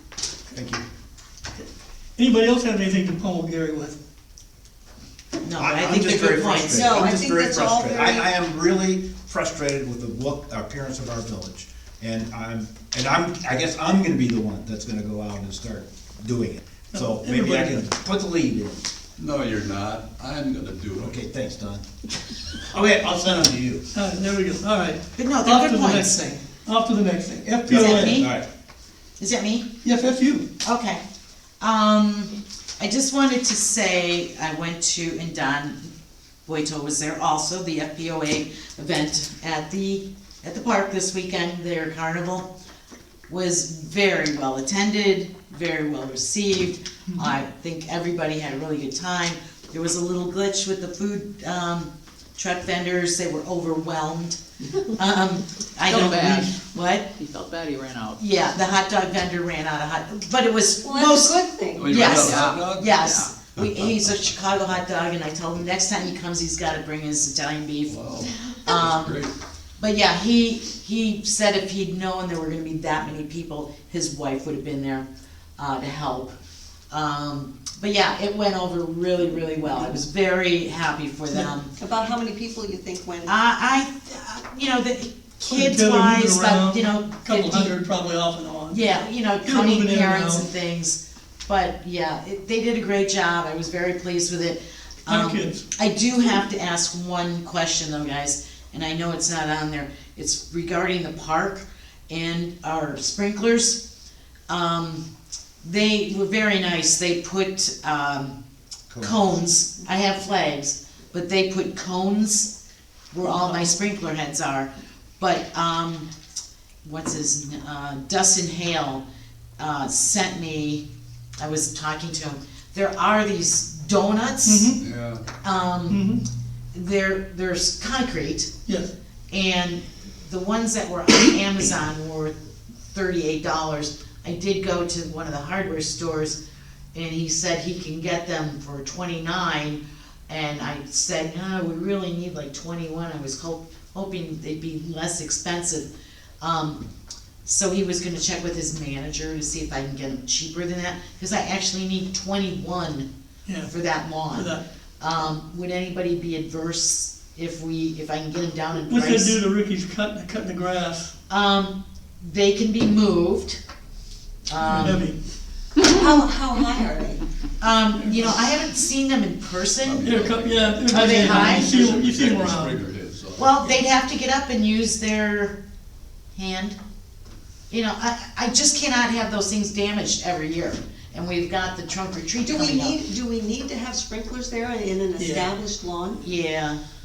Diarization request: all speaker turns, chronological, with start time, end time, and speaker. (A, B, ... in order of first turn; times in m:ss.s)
0:00.5-0:00.8 A
0:02.2-0:04.0 B
0:05.4-0:07.1 C
0:05.6-0:18.8 A
0:06.7-0:08.3 D
0:16.9-0:17.8 B
0:19.2-0:21.2 E
0:21.0-0:21.8 A
0:22.6-0:23.8 A
0:23.9-0:28.3 B
0:25.2-0:26.2 C
0:27.6-0:28.5 A
0:27.7-0:28.3 C
0:29.2-0:29.7 C
0:29.8-0:30.5 B
0:30.6-0:31.0 C
0:31.6-0:35.9 C
0:36.5-0:42.5 C
0:43.3-0:54.4 C
0:55.0-0:57.1 C
0:55.9-0:56.6 B
0:56.1-0:56.5 F
0:57.2-0:58.2 F
0:58.2-1:08.0 C
1:00.8-1:02.2 D
1:01.8-1:03.0 E
1:02.2-1:03.4 F
1:03.6-1:03.9 E
1:07.9-1:09.3 E
1:08.6-1:09.2 C
1:09.8-1:15.1 C
1:15.6-1:16.4 C
1:16.9-1:21.7 C
1:21.8-1:23.3 D
1:23.3-1:27.8 C
1:25.5-1:28.8 B
1:28.7-1:43.8 C
1:29.4-1:30.5 B
1:35.1-1:35.6 B
1:44.5-1:45.0 C
1:45.6-1:48.4 C
1:48.9-1:49.2 A
1:49.0-1:52.5 C
1:53.1-1:56.1 C
1:56.8-1:59.0 C
1:59.6-2:00.8 C
2:01.4-2:04.7 C
2:04.4-2:04.8 B
2:04.7-2:05.2 E
2:05.4-2:06.0 C
2:05.9-2:06.2 B
2:06.7-2:08.5 C
2:08.7-2:08.9 B
2:09.3-2:12.4 C
2:12.9-2:16.4 C
2:16.9-2:25.9 C
2:26.4-2:26.8 C
2:27.4-2:33.1 C
2:33.5-2:34.6 B
2:33.7-2:39.4 C
2:38.8-2:41.1 B
2:41.3-2:43.6 C
2:44.5-2:45.1 C
2:44.6-2:45.2 B
2:45.8-2:47.2 D
2:47.6-2:50.2 C
2:48.0-2:48.4 B
2:49.8-2:53.7 E
2:50.0-2:52.8 B
2:50.9-2:51.7 C
2:53.4-2:55.6 C
2:56.4-2:56.8 C
2:57.7-3:03.0 C
3:02.4-3:06.2 D
3:05.2-3:05.5 B
3:06.2-3:06.8 C